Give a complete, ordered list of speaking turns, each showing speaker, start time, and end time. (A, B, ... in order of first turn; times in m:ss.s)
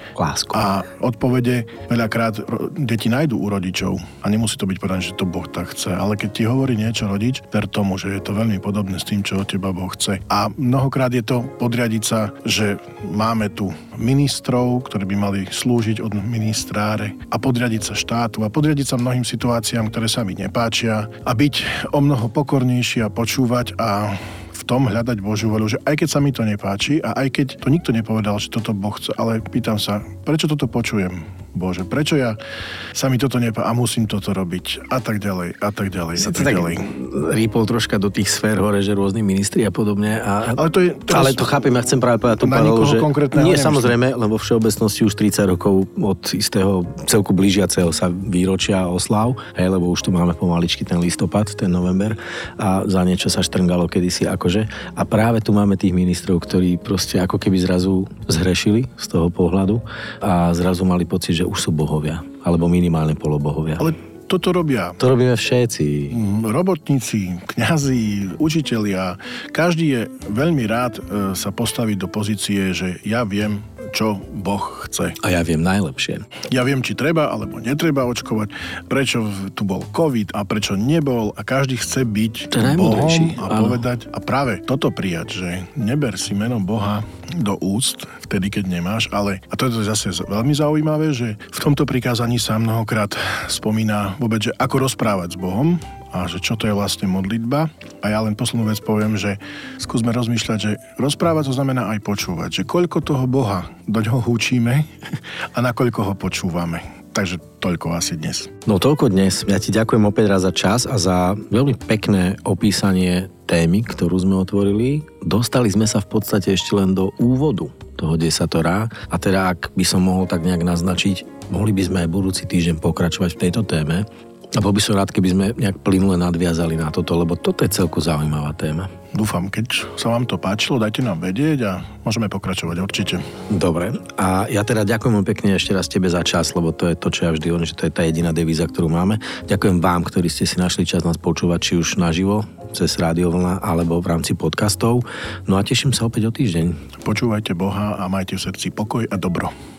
0:00.2-0:00.6 A
0:00.5-0:32.4 B
0:32.9-0:36.9 B
0:36.2-1:03.9 A
0:40.5-0:41.5 B
0:42.4-0:44.0 B
1:03.8-1:05.0 B
1:05.0-1:06.2 A
1:06.1-1:15.2 B
1:15.2-1:16.2 A
1:16.5-1:44.9 B
1:22.5-1:23.8 A
1:45.5-1:48.5 B
1:48.6-2:08.9 A
2:09.1-2:13.2 B
2:13.5-2:26.8 A
2:27.0-2:29.5 B